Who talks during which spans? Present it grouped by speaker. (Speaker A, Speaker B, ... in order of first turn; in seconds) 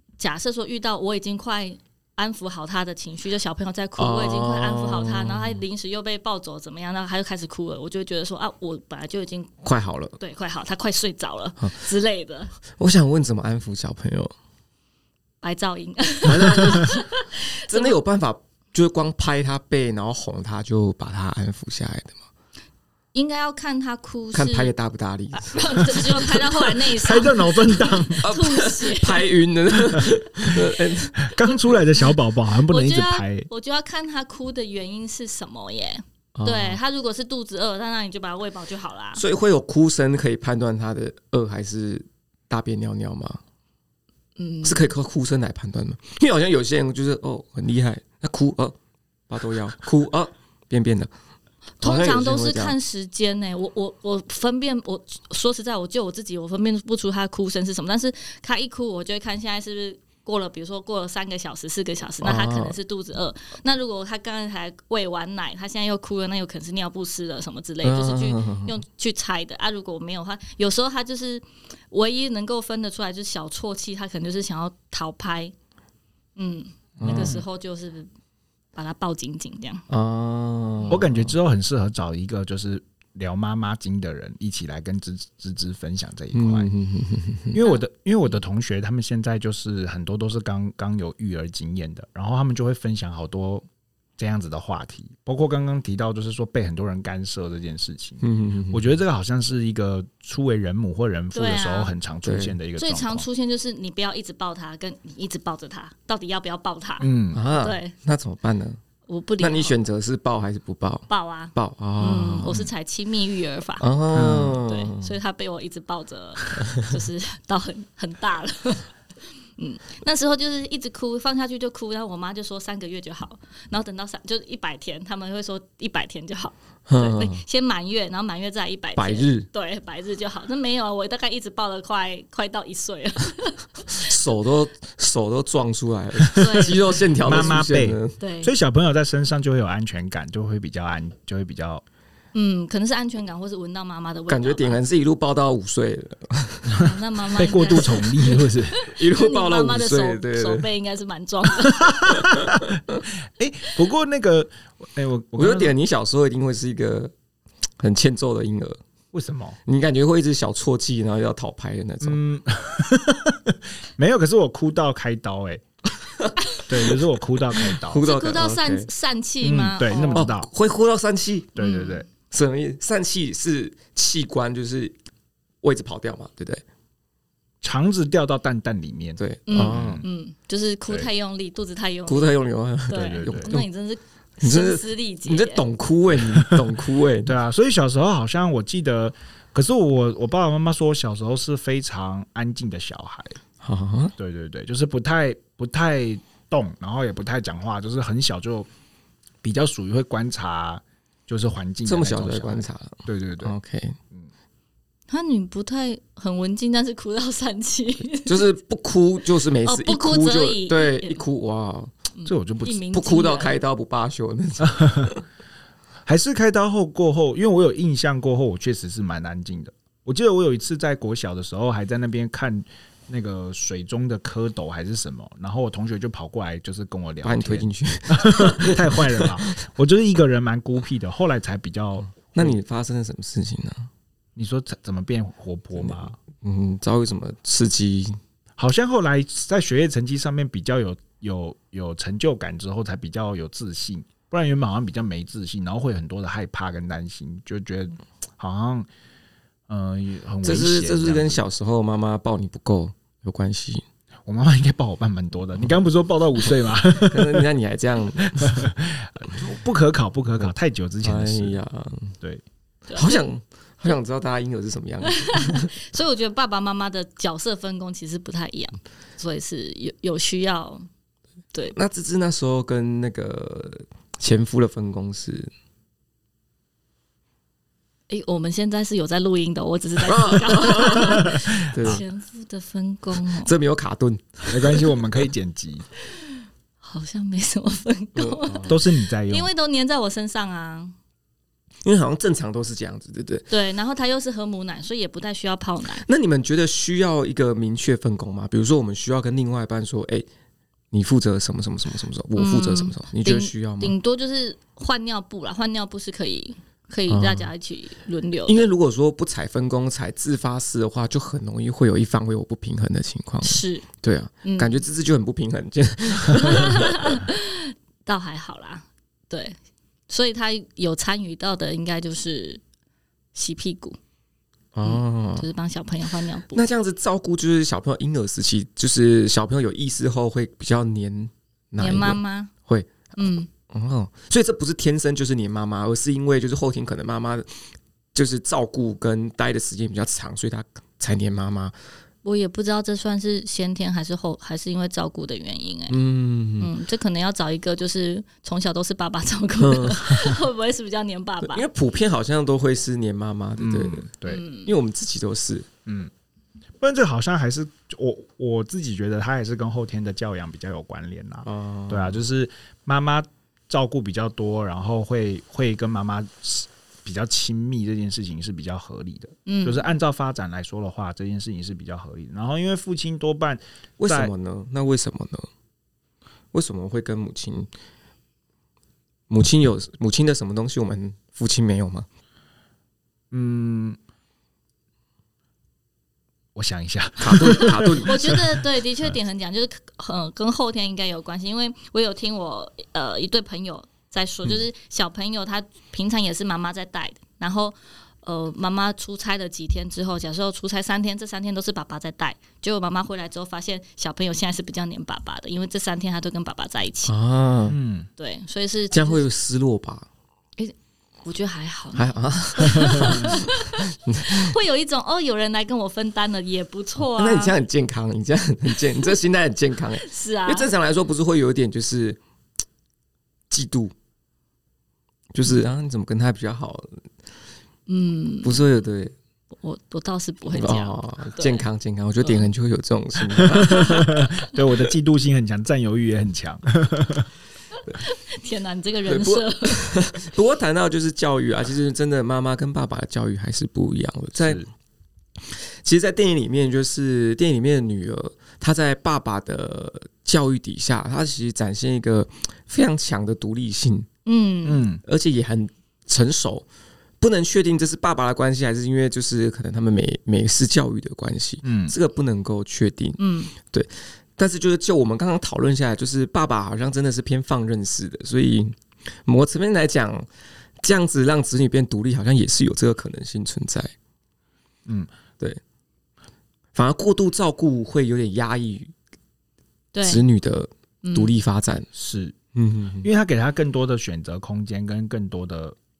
Speaker A: 0.2-9.5, 10.2-12.5, 15.4-17.9, 23.1-24.7, 25.3-29.3, 32.7-39.2, 44.4-44.9, 51.8-75.5, 76.3-78.1, 78.7-79.8, 101.3-101.9, 102.8-107.9, 109.1-109.8, 111.1-113.9, 114.6-118.9, 119.6-134.1, 136.3-137.5, 138.2-138.5, 142.3-144.8, 146.8-152.3, 168.0-170.3, 171.6-172.0, 179.5-185.6, 205.1-208.5, 209.6-211.2, 212.2-213.6, 262.9-263.3, 265.1-270.9, 278.1-283.5, 286.8-290.9, 293.5-296.0, 302.4-308.7, 313.4-313.9, 314.4-314.8, 316.4-319.6, 320.1-322.6, 323.3-324.0, 324.8-326.6, 331.8-332.5, 333.2-333.5, 342.2-346.0, 346.6-351.6, 354.2-354.7, 369.4-369.9, 387.4-407.1, 408.2-409.2, 410.6-417.5, 420.0-420.7, 427.9-428.6, 429.6-431.6, 432.2-432.5, 433.6-434.0, 437.9-440.0, 454.2-454.8, 463.2-463.5, 479.9-480.2, 481.0-481.3
Speaker B: 4.0-5.6, 9.6-10.2, 12.8-14.3, 16.3-17.0, 17.7-22.1, 24.3-26.7, 28.2-31.3, 36.3-36.8, 39.1-43.4, 44.6-48.8, 49.3-51.1, 51.8-52.7, 62.2-62.8, 67.8-68.8, 77.0-77.4, 79.9-81.3, 86.3-87.6, 98.2-98.9, 102.2-102.6, 107.3-108.8, 109.4-112.7, 113.8-115.2, 126.9-127.4, 128.9-129.5, 133.9-138.2, 144.3-146.8, 148.8-150.7, 152.1-153.0, 155.3-157.1, 157.8-158.8, 159.7-162.2, 166.2-167.0, 167.6-168.9, 170.1-171.6, 172.3-174.9, 175.6-176.6, 179.2-180.0, 182.1-183.7, 184.4-187.3, 193.6-194.1, 201.8-204.0, 208.2-211.9, 212.9-215.2, 227.2-229.4, 232.1-233.9, 235.8-238.2, 250.4-253.8, 256.9-258.7, 261.0-262.1, 262.9-265.7, 271.7-275.5, 280.0-282.0, 283.3-284.5, 288.1-288.8, 291.8-293.5, 296.0-300.3, 300.9-303.9, 307.1-307.5, 308.5-317.2, 324.7-325.4, 326.5-341.7, 345.9-346.7, 349.6-350.3, 351.4-355.7, 361.4-362.2, 374.0-375.5, 376.5-377.7, 379.3-382.1, 387.2-388.4, 407.1-407.8, 408.9-410.1, 411.9-413.4, 414.0-414.5, 417.1-422.2, 423.5-423.9, 425.3-427.0, 428.4-429.1, 430.5-434.3, 439.1-444.6, 445.5-454.1, 455.0-456.6, 457.2-470.3, 470.8-473.9, 476.7-478.9, 480.0-481.9, 482.5-483.1
Speaker C: 16.4-16.8, 26.9-28.2, 31.2-33.5, 77.0-77.4, 80.9-86.7, 87.5-93.6, 94.2-103.2, 107.0-107.4, 114.1-114.6, 137.2-141.8, 146.7-148.8, 151.8-155.7, 159.1-159.6, 162.0-165.6, 166.7-168.0, 169.4-170.5, 171.6-172.0, 177.6-180.1, 182.9-183.5, 186.2-186.6, 187.2-193.4, 194.2-198.7, 199.4-203.5, 212.2-212.8, 214.6-215.1, 216.1-232.6, 234.3-236.2, 238.6-248.9, 249.7-251.4, 254.2-257.5, 258.2-261.6, 281.1-282.0, 284.5-285.9, 288.7-289.5, 353.6-354.4, 355.9-356.1, 356.8-374.3, 383.3-384.0, 386.5-389.1, 407.7-408.1, 433.4-437.3, 444.4-444.7, 454.6-455.0, 461.6-461.9, 481.9-482.4, 483.0-485.8